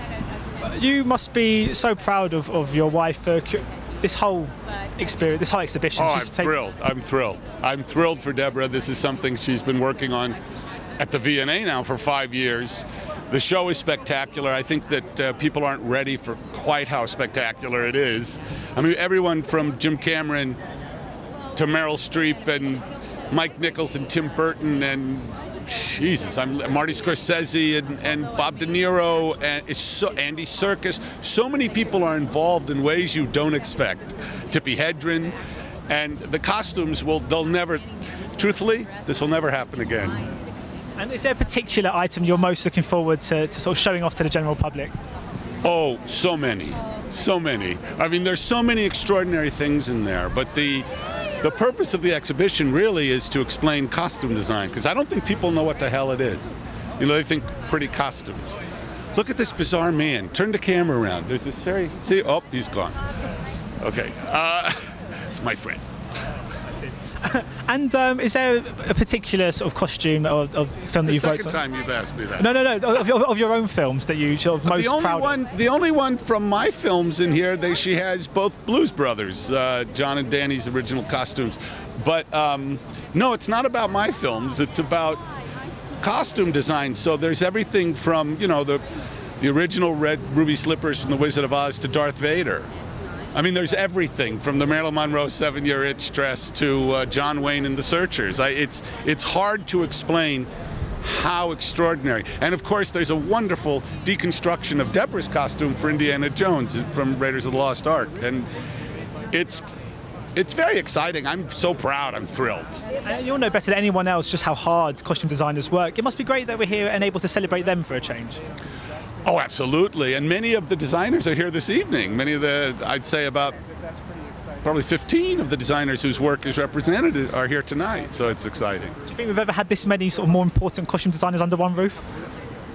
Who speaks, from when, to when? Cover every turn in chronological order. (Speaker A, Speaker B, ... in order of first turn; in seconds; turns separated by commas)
Speaker A: 0.6-6.5, Speaker B: 6.0-10.4, Speaker B: 11.0-20.6, Speaker B: 21.5-35.4, Speaker B: 35.9-37.8, Speaker B: 38.4-40.2, Speaker A: 41.0-45.0, Speaker B: 45.6-50.9, Speaker B: 51.4-58.6, Speaker B: 59.1-63.0, Speaker B: 63.8-65.8, Speaker A: 67.0-71.6, Speaker B: 71.0-72.5, Speaker A: 72.4-75.3, Speaker B: 74.6-85.2, Speaker B: 86.0-88.8, Speaker B: 89.4-92.7, Speaker B: 93.3-100.5, Speaker B: 101.0-108.5, Speaker B: 109.3-109.7, Speaker B: 110.3-112.8, Speaker A: 113.0-118.4, Speaker B: 119.2-123.6, Speaker B: 124.6-128.9, Speaker A: 129.1-132.0